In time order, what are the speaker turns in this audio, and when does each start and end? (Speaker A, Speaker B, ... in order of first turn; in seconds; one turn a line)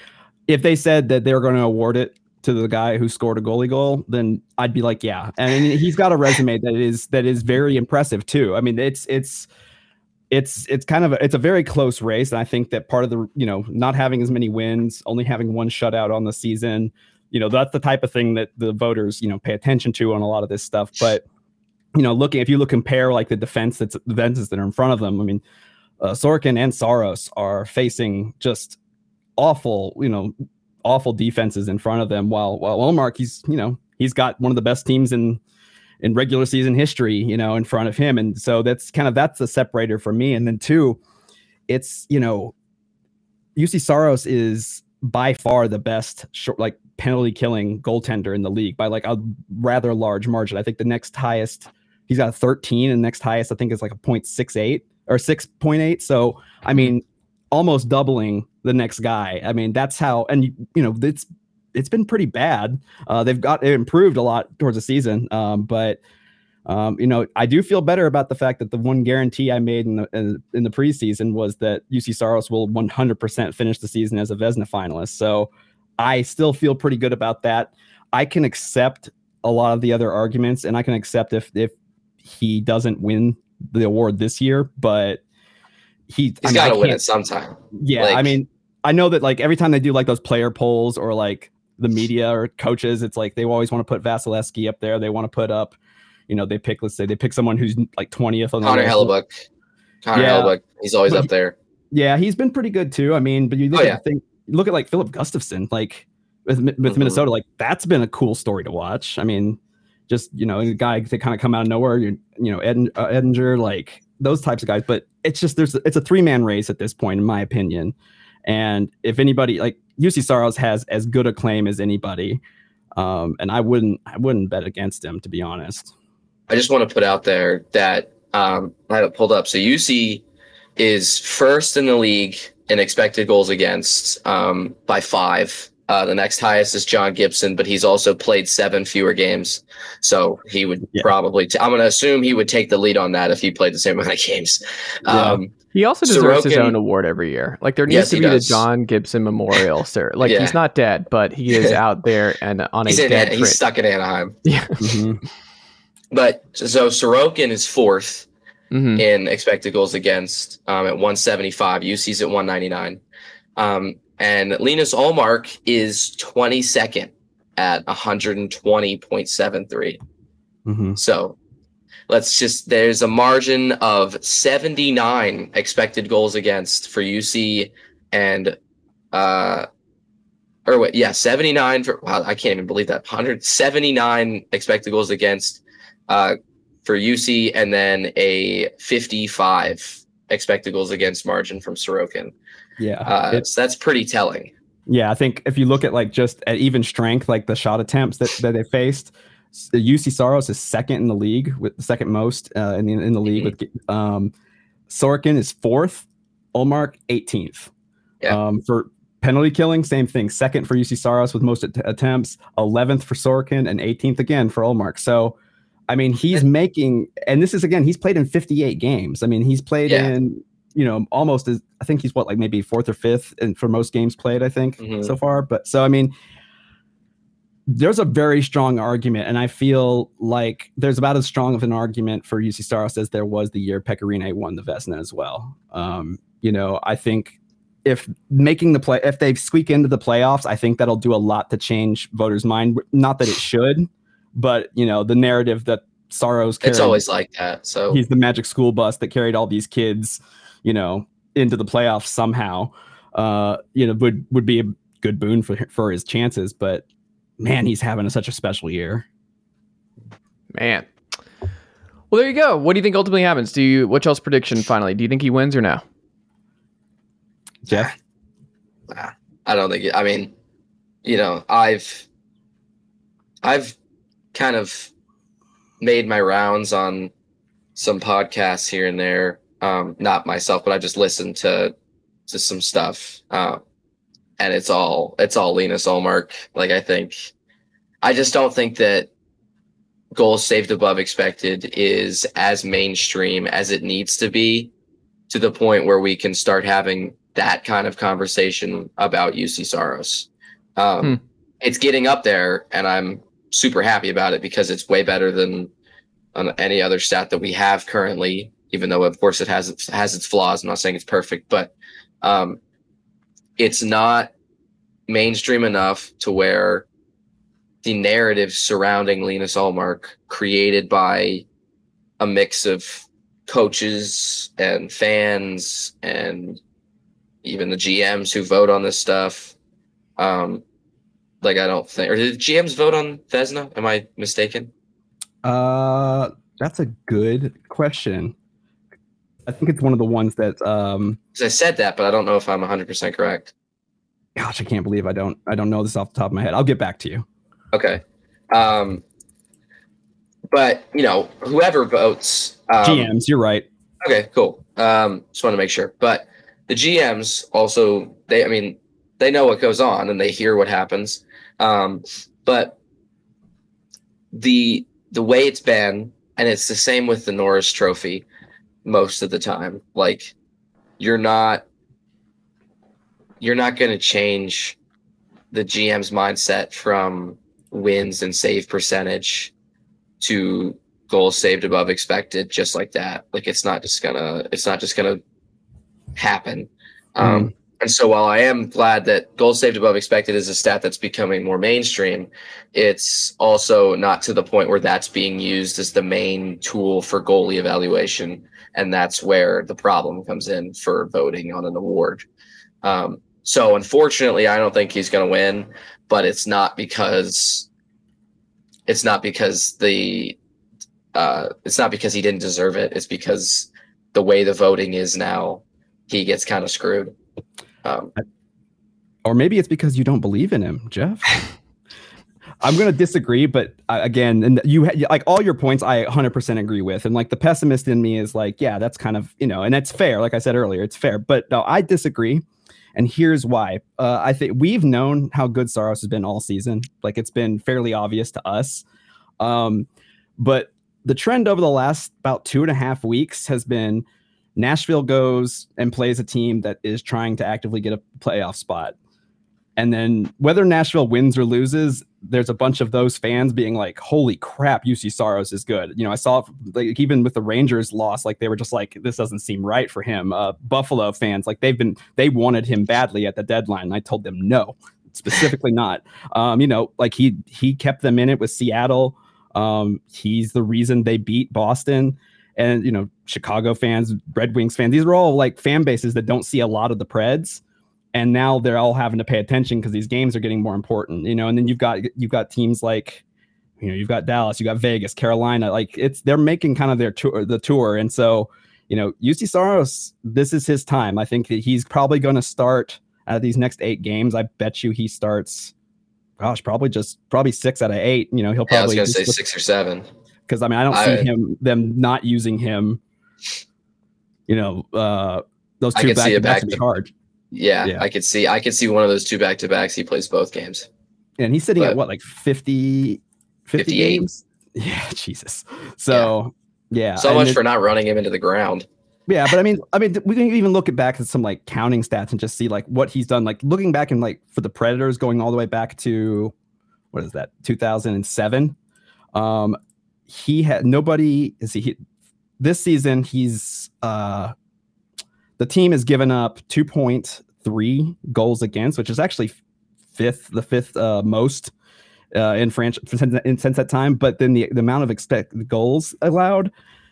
Speaker A: 0.5-9.5
Speaker A: 10.3-21.2
Speaker A: 21.9-25.4
Speaker A: 26.0-28.8
Speaker A: 29.4-35.4
Speaker A: 36.0-41.0
Speaker A: 41.7-42.5
Speaker A: 43.5-66.0
Speaker A: 66.7-85.2
Speaker A: 86.1-87.0
Speaker B: 86.4-88.3
Speaker A: 87.7-95.8
Speaker A: 96.3-99.1
Speaker B: 98.6-99.3
Speaker B: 100.0-101.5
Speaker A: 100.1-100.5
Speaker A: 101.9-117.9
Speaker B: 103.7-104.0
Speaker B: 106.8-107.2
Speaker A: 118.5-122.4
Speaker A: 123.0-125.9
Speaker B: 126.5-130.2
Speaker B: 130.8-145.5
Speaker A: 145.1-145.4
Speaker C: 145.7-153.6
Speaker B: 146.0-146.7
Speaker B: 147.9-148.6
Speaker B: 150.2-150.6
Speaker B: 152.9-154.4
Speaker C: 154.4-154.7
Speaker A: 154.8-155.2
Speaker B: 156.1-158.3
Speaker C: 158.7-159.0
Speaker B: 159.0-163.0
Speaker B: 163.6-170.0
Speaker A: 170.7-171.0
Speaker B: 171.0-171.3
Speaker B: 172.1-178.6
Speaker B: 179.1-179.7
Speaker B: 180.7-192.3
Speaker A: 192.8-193.4
Speaker B: 193.1-194.5
Speaker A: 194.9-204.3
Speaker A: 204.9-207.7
Speaker A: 208.3-215.3
Speaker A: 215.9-226.1
Speaker B: 219.9-220.1
Speaker B: 224.8-225.1
Speaker A: 227.7-247.0
Speaker B: 246.6-248.0
Speaker A: 247.9-256.8
Speaker A: 257.4-259.0
Speaker C: 260.5-260.9
Speaker C: 262.1-265.8
Speaker A: 267.6-267.9
Speaker B: 268.9-270.3
Speaker B: 271.0-272.1
Speaker B: 273.4-273.7
Speaker B: 274.3-274.9
Speaker B: 275.8-277.1
Speaker B: 277.8-281.7
Speaker B: 282.3-283.6
Speaker B: 284.4-287.3
Speaker B: 288.0-289.1
Speaker B: 290.1-294.7
Speaker B: 295.3-305.7
Speaker B: 306.3-312.6
Speaker B: 313.6-314.3
Speaker B: 315.1-316.9
Speaker B: 317.8-321.4
Speaker B: 322.2-326.6
Speaker B: 327.4-329.5
Speaker B: 330.2-330.6
Speaker B: 331.4-334.7
Speaker A: 335.4-338.3
Speaker A: 339.4-341.2
Speaker B: 341.4-343.5
Speaker A: 344.4-347.2
Speaker B: 347.7-349.0
Speaker B: 350.5-353.1
Speaker A: 352.8-353.7
Speaker B: 354.0-362.8
Speaker B: 364.3-368.2
Speaker B: 368.8-370.3
Speaker B: 371.0-371.6
Speaker B: 373.4-374.8
Speaker B: 375.5-379.5
Speaker B: 380.2-385.2
Speaker B: 386.1-402.2
Speaker A: 387.2-387.5
Speaker B: 402.8-407.7
Speaker B: 408.9-410.4
Speaker B: 411.1-417.1
Speaker B: 417.8-418.1
Speaker A: 419.2-421.4
Speaker A: 422.6-438.8
Speaker A: 439.4-448.9
Speaker A: 449.8-477.6
Speaker A: 478.1-483.2
Speaker A: 483.8-495.7
Speaker A: 496.4-499.4
Speaker B: 498.7-500.1
Speaker A: 500.5-503.0
Speaker B: 500.9-501.3
Speaker A: 504.5-507.1
Speaker B: 505.9-506.8
Speaker B: 507.5-510.9
Speaker A: 511.4-517.6
Speaker B: 513.8-514.2
Speaker B: 517.2-518.9
Speaker A: 519.3-526.5
Speaker A: 527.1-528.8
Speaker A: 529.3-532.0
Speaker A: 532.6-534.5
Speaker A: 535.6-539.5
Speaker A: 540.1-541.7
Speaker A: 542.3-546.7